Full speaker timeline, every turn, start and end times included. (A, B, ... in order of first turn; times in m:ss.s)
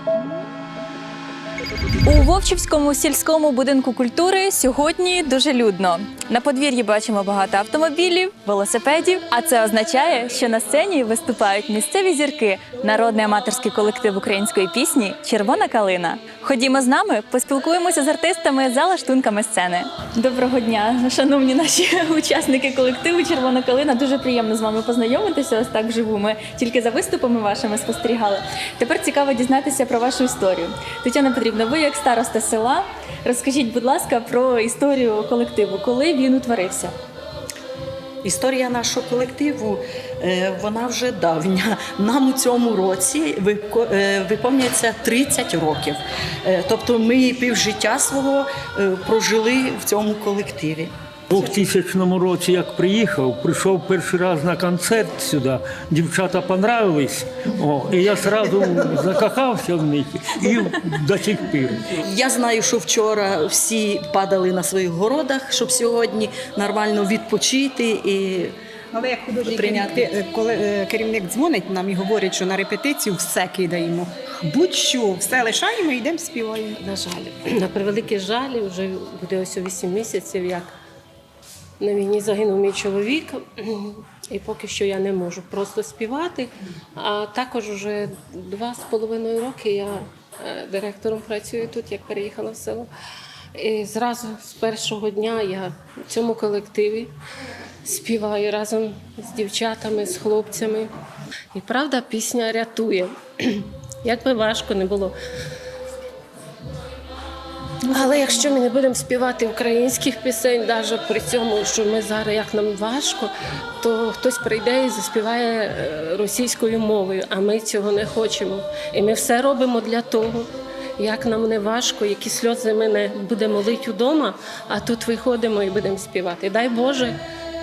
0:02.0-0:36.9 A
0:38.2-0:50.9 B
0:51.3-1:01.8 C
1:02.0-1:08.5 B
1:08.9-1:16.8 D
1:09.5-1:10.1 B
1:16.8-1:20.7 E
1:21.8-1:32.9 E
1:33.5-1:37.1 E
1:37.8-1:40.9 E
1:41.5-1:45.1 E
1:47.8-1:48.6 A
1:47.9-2:07.2 E